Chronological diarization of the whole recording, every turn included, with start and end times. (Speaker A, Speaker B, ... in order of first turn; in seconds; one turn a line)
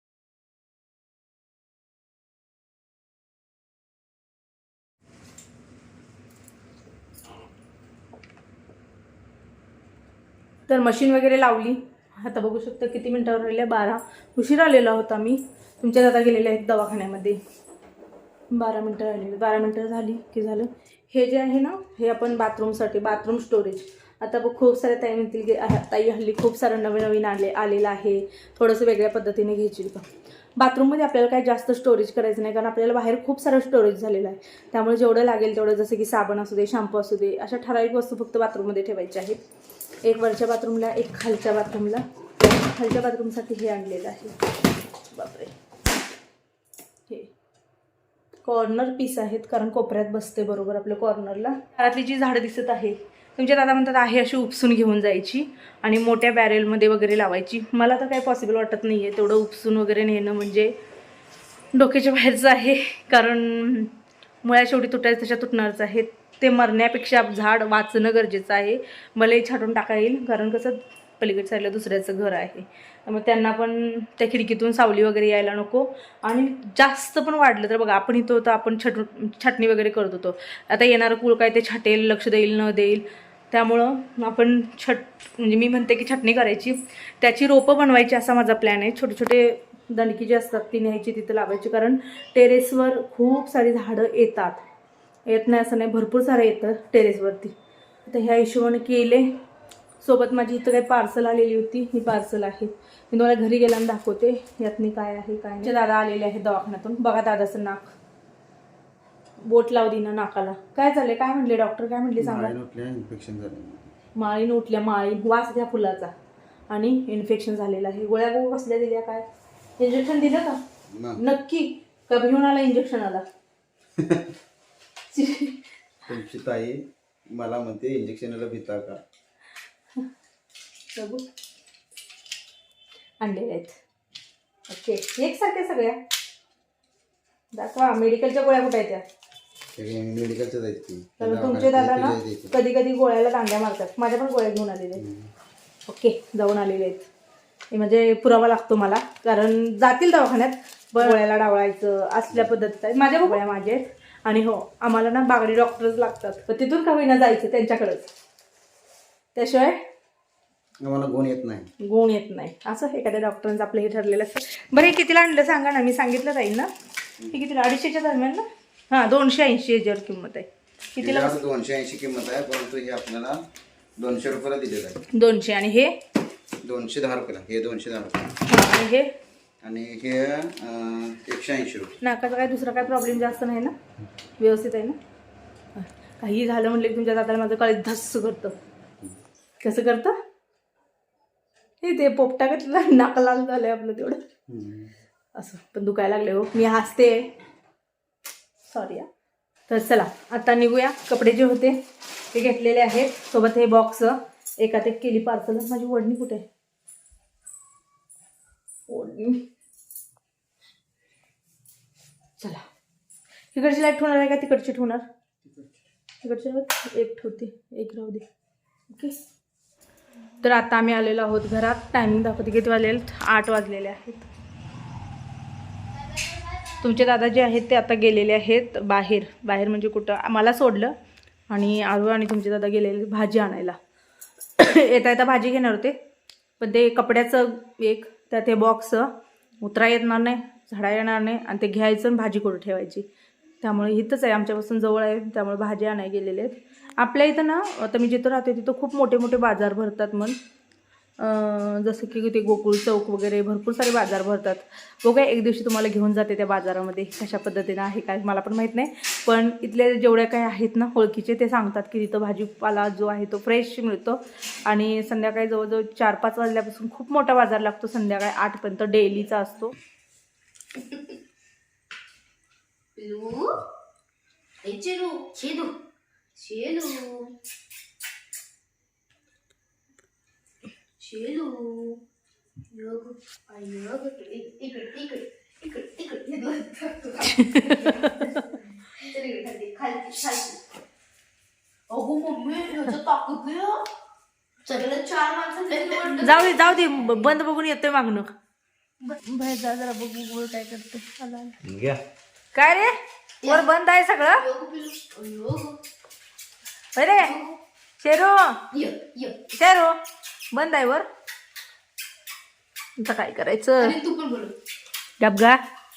Speaker A: 10.7-17.4
Speaker A: 18.5-39.4
Speaker A: 40.0-44.4
Speaker A: 45.1-45.5
Speaker A: 48.4-60.7
Speaker A: 61.7-94.6
Speaker A: 95.3-97.5
Speaker A: 98.1-99.3
Speaker A: 100.0-107.9
Speaker A: 109.4-112.5
Speaker B: 112.2-113.9
Speaker A: 114.2-116.1
Speaker A: 116.7-119.2
Speaker A: 119.8-120.6
Speaker B: 120.9-121.2
Speaker A: 121.2-123.2
Speaker B: 124.0-124.3
Speaker A: 125.1-125.6
Speaker B: 126.1-129.0
Speaker A: 130.9-131.2
Speaker A: 133.2-133.8
Speaker A: 134.7-136.0
Speaker A: 137.5-139.1
Speaker B: 139.8-142.6
Speaker A: 141.2-145.0
Speaker B: 145.0-145.3
Speaker A: 145.9-147.1
Speaker A: 147.7-158.1
Speaker A: 159.3-159.8
Speaker B: 160.8-161.7
Speaker A: 161.8-166.7
Speaker A: 167.3-171.4
Speaker B: 171.0-173.4
Speaker B: 174.0-175.1
Speaker A: 175.2-175.9
Speaker B: 176.6-178.4
Speaker A: 178.5-179.1
Speaker B: 179.6-181.9
Speaker A: 182.0-183.8
Speaker A: 184.4-185.0
Speaker A: 185.8-188.6
Speaker A: 189.6-190.1
Speaker A: 191.8-194.2
Speaker B: 194.5-194.9
Speaker A: 195.3-197.3
Speaker A: 198.7-199.1
Speaker A: 199.7-201.8
Speaker A: 202.3-206.4
Speaker A: 208.9-209.4
Speaker A: 212.4-212.6
Speaker A: 213.5-215.0
Speaker A: 216.2-218.2
Speaker A: 218.9-219.2
Speaker A: 220.4-224.3
Speaker A: 226.8-230.9
Speaker A: 231.5-233.8
Speaker A: 234.6-236.0
Speaker A: 236.6-239.1
Speaker A: 239.6-243.1
Speaker A: 243.6-250.4
Speaker A: 251.2-269.7
Speaker C: 273.0-273.6
Speaker C: 274.6-275.8
Speaker C: 276.4-277.3
Speaker C: 281.0-282.0
Speaker C: 282.7-290.6
Speaker A: 287.2-288.1
Speaker C: 291.9-293.9
Speaker C: 294.6-297.2
Speaker A: 295.9-298.3
Speaker A: 299.1-301.6
Speaker B: 301.6-302.0
Speaker A: 302.5-304.5
Speaker C: 303.4-303.7
Speaker C: 304.2-305.8
Speaker A: 307.0-307.4
Speaker C: 307.1-307.6
Speaker A: 308.0-308.6
Speaker C: 308.7-309.4
Speaker A: 309.5-309.9
Speaker A: 310.5-311.1
Speaker A: 313.0-314.0
Speaker C: 313.8-314.5
Speaker A: 315.2-315.6